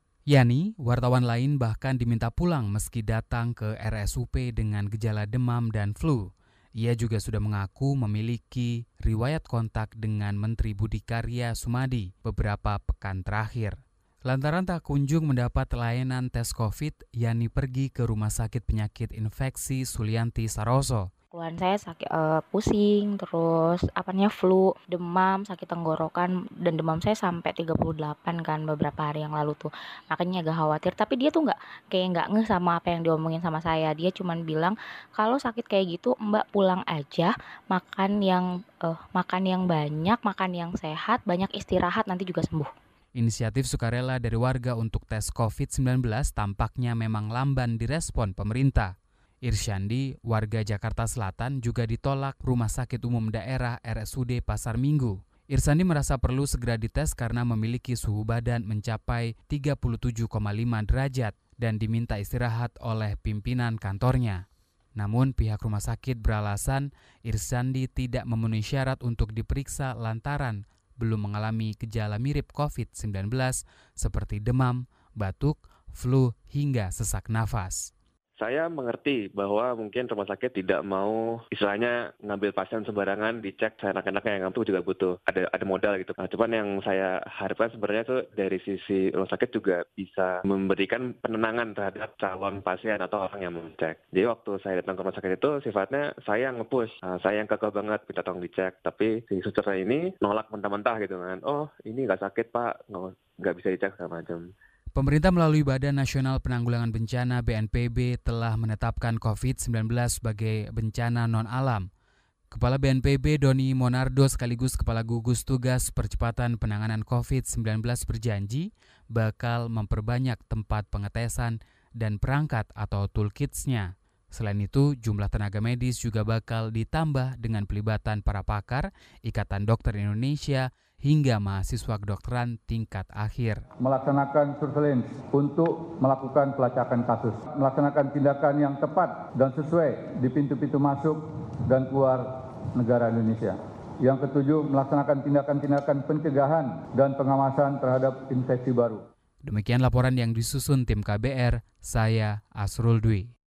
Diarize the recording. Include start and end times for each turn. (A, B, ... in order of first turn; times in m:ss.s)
0:00.3-0:21.1 A
0:21.3-0:42.7 B
0:43.1-1:04.4 A
1:05.0-1:17.9 A
1:18.4-1:44.5 C
1:44.9-1:51.9 A
1:52.5-2:13.7 A
2:13.8-2:29.0 D
2:29.4-2:33.3 A